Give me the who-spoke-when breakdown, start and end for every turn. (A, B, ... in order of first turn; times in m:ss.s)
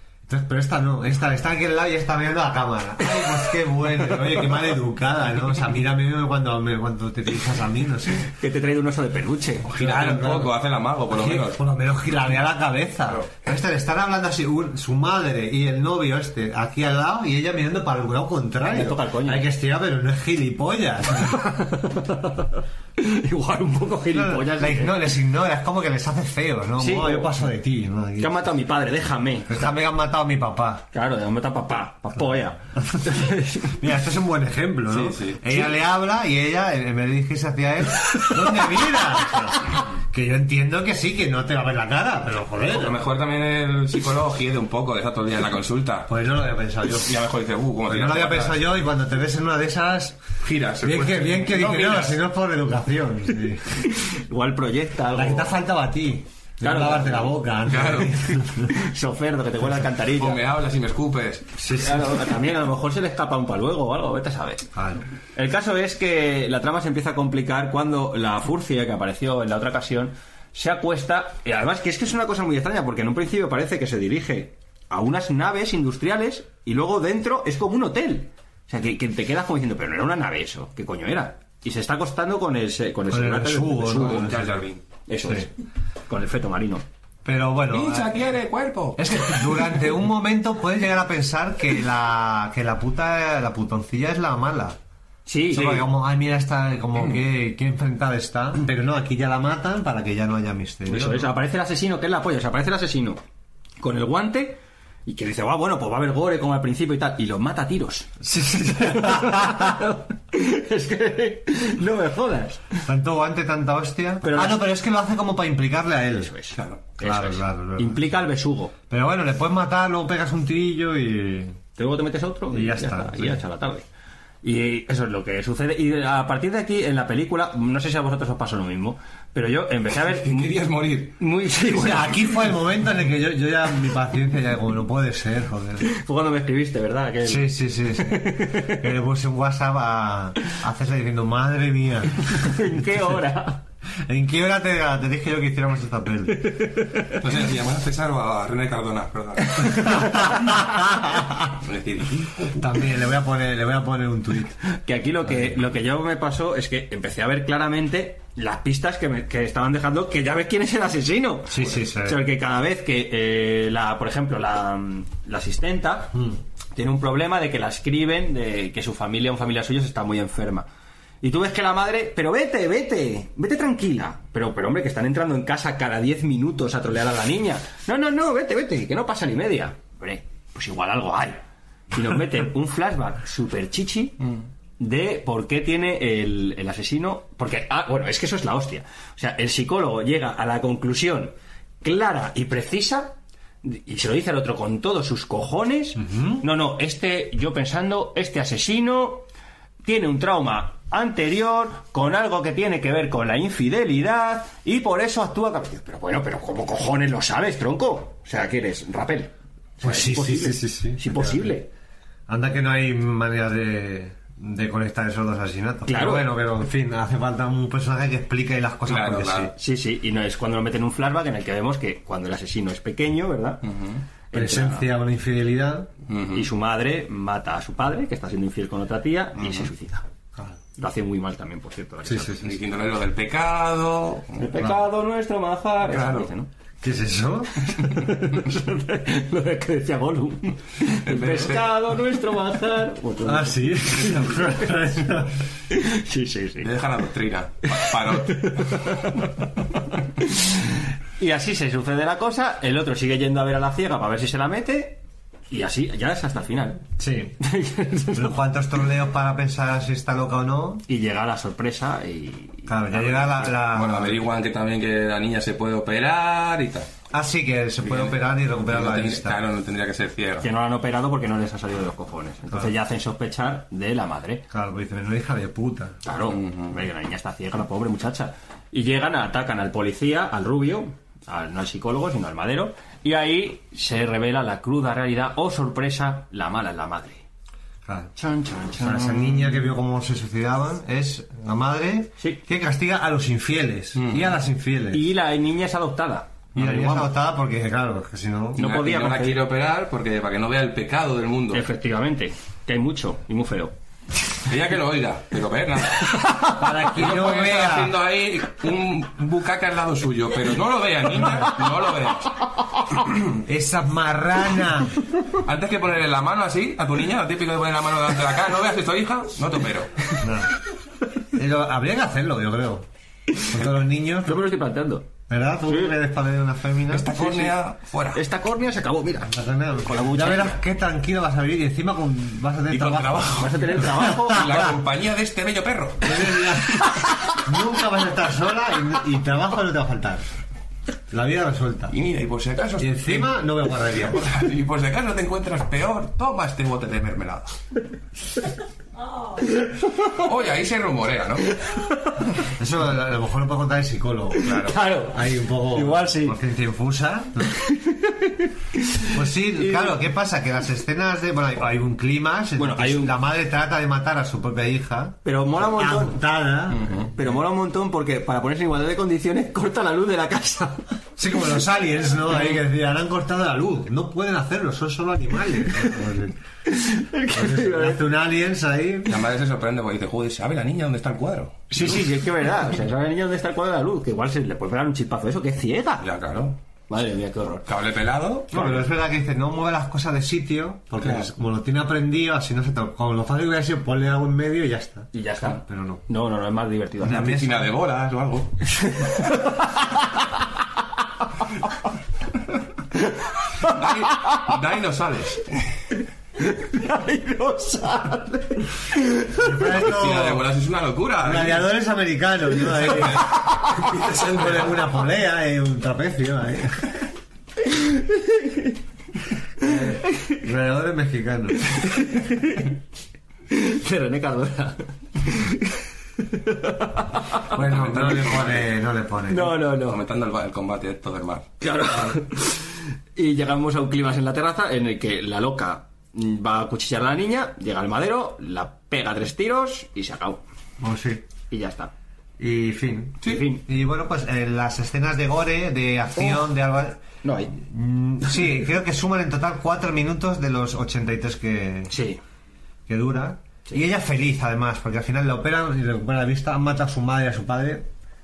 0:00.3-0:08.3 A
0:08.2-0:09.7 B
0:09.7-0:11.6 C
0:09.7-0:10.6 A
0:11.1-0:21.5 A
0:18.7-0:19.5 B
0:21.5-0:25.0 B
0:24.1-0:28.6 A
0:26.8-0:27.4 B
0:28.2-0:29.7 B
0:29.5-0:30.9 A
0:30.9-0:33.7 B
0:32.8-0:43.0 A
0:34.9-0:35.7 C
0:42.7-0:46.1 C
0:46.1-0:47.2 A
0:46.9-0:48.7 C
0:47.9-0:50.3 A
0:50.4-0:52.2 C
0:50.8-0:53.9 A
0:53.8-0:55.5 B
0:55.1-0:58.7 A
0:56.6-0:57.4 B
0:57.7-0:58.3 C
0:58.6-1:00.4 B
1:00.2-1:01.6 C
1:01.6-1:02.2 A
1:01.7-1:04.7 B
1:04.7-1:05.0 A
1:05.4-1:24.2 B
1:23.1-1:24.6 A
1:23.8-1:24.8 C
1:25.1-1:25.5 B
1:26.1-1:26.8 B
1:27.2-1:28.2 A
1:27.7-1:29.4 C
1:29.0-1:34.8 A
1:35.3-1:35.9 B
1:35.5-1:41.3 A
1:40.9-1:43.2 B
1:43.8-1:52.8 B
1:48.2-1:49.8 A
1:52.9-1:56.3 A
1:54.2-1:54.6 B
1:56.2-1:58.7 B
1:56.5-1:56.8 C
1:57.0-1:58.2 A
1:58.9-2:01.6 A
2:01.8-2:03.9 B
2:02.5-2:03.4 A
2:04.4-2:10.4 B
2:10.1-2:11.2 C
2:11.2-2:12.3 B
2:11.7-2:15.9 A
2:15.8-2:18.9 B
2:17.2-2:22.6 A
2:22.3-2:23.6 B
2:24.1-2:26.7 A
2:26.4-2:27.1 B
2:27.1-2:32.5 C
2:29.9-2:31.0 A
2:32.5-2:34.6 A
2:34.7-2:46.2 B
2:35.3-2:35.6 A
2:41.5-2:42.2 A
2:46.8-2:50.7 B
2:51.2-3:04.3 B
3:04.8-3:19.2 B
3:16.0-3:16.4 A
3:19.8-3:31.7 B
3:29.8-3:31.5 A
3:32.3-3:39.5 A
3:35.9-3:36.3 B
3:38.9-3:39.5 C
3:39.6-3:43.6 B
3:43.6-3:44.0 C
3:44.3-3:44.9 B
3:44.3-3:45.9 A
3:46.1-3:46.5 C
3:46.3-3:50.0 B
3:50.8-3:52.6 B
3:52.1-3:52.4 A
3:52.3-3:54.5 C
3:54.4-3:56.5 B
3:55.9-3:56.3 C
3:56.8-3:57.7 A
3:57.7-4:03.7 B
4:01.0-4:01.7 C
4:03.2-4:05.4 A
4:04.0-4:04.5 C
4:05.7-4:06.7 B
4:06.6-4:09.0 C
4:07.8-4:09.4 B
4:10.2-4:10.5 B
4:11.2-4:16.8 B
4:17.0-4:17.4 A
4:17.4-4:18.4 B
4:18.1-4:20.8 A
4:20.9-4:23.5 B
4:22.7-4:24.2 A
4:23.5-4:26.9 C
4:27.1-4:29.4 A
4:27.8-4:30.5 C
4:30.4-4:34.4 B
4:34.5-4:36.0 A
4:36.0-4:47.2 B
4:36.3-4:36.7 C
4:47.9-4:48.1 A
4:48.2-4:49.6 B
4:48.8-4:55.1 A
4:52.2-4:52.4 B
4:54.0-4:54.4 C
4:54.9-4:57.1 B
4:56.6-4:58.6 A
4:58.6-4:59.4 B
4:58.6-5:01.6 C
5:01.5-5:03.7 B
5:04.5-5:12.3 C
5:06.5-5:08.0 A
5:13.4-5:14.9 A
5:15.3-5:19.9 C
5:20.2-5:20.5 A
5:21.3-5:22.9 A
5:23.5-5:24.5 A
5:24.2-5:25.1 B
5:25.3-5:27.1 A
5:25.7-5:26.0 B
5:26.9-5:28.2 C
5:27.2-5:27.5 B
5:28.1-5:30.6 B
5:29.2-5:34.7 A
5:32.7-5:36.3 C
5:33.4-5:34.5 B
5:36.0-5:40.3 A
5:41.1-5:41.9 A
5:41.9-5:47.5 C
5:42.8-5:44.3 A
5:49.4-5:50.3 B
5:50.1-5:51.4 C
5:51.5-5:52.2 B
5:52.6-5:54.5 A
5:54.4-5:56.4 B
5:54.4-5:54.8 C
5:55.1-5:57.6 A
5:57.6-6:00.0 B
5:59.1-6:07.2 A
6:02.6-6:03.2 B
6:05.2-6:06.2 B
6:06.8-6:07.1 C
6:07.0-6:10.8 B
6:11.2-6:16.4 A
6:16.7-6:18.1 B
6:17.3-6:19.2 A
6:19.1-6:22.1 C
6:21.7-6:26.1 B
6:26.0-6:26.6 C
6:26.9-6:27.7 B
6:27.7-6:28.9 C
6:28.5-6:36.0 A
6:31.0-6:31.3 C
6:35.1-6:37.4 B
6:37.0-6:38.7 C
6:37.1-6:37.7 A
6:38.7-6:40.1 B
6:43.0-6:44.4 B
6:43.6-6:45.6 C
6:46.4-6:49.5 B
6:49.3-6:50.5 A
6:49.7-6:51.7 C
6:51.2-6:57.0 A
6:52.7-6:54.8 C
6:57.8-6:58.7 B
6:59.6-7:01.7 A
7:01.8-7:02.7 B
7:03.5-7:07.5 B
7:07.5-7:08.7 C
7:07.5-7:09.6 A
7:09.3-7:10.0 B
7:09.8-7:11.5 C
7:11.6-7:20.4 B
7:20.8-7:21.2 A
7:21.5-7:21.9 B
7:22.4-7:27.0 A
7:23.2-7:23.6 B
7:27.2-7:27.6 B
7:27.5-7:32.0 A
7:31.9-7:32.2 B
7:32.9-7:37.9 A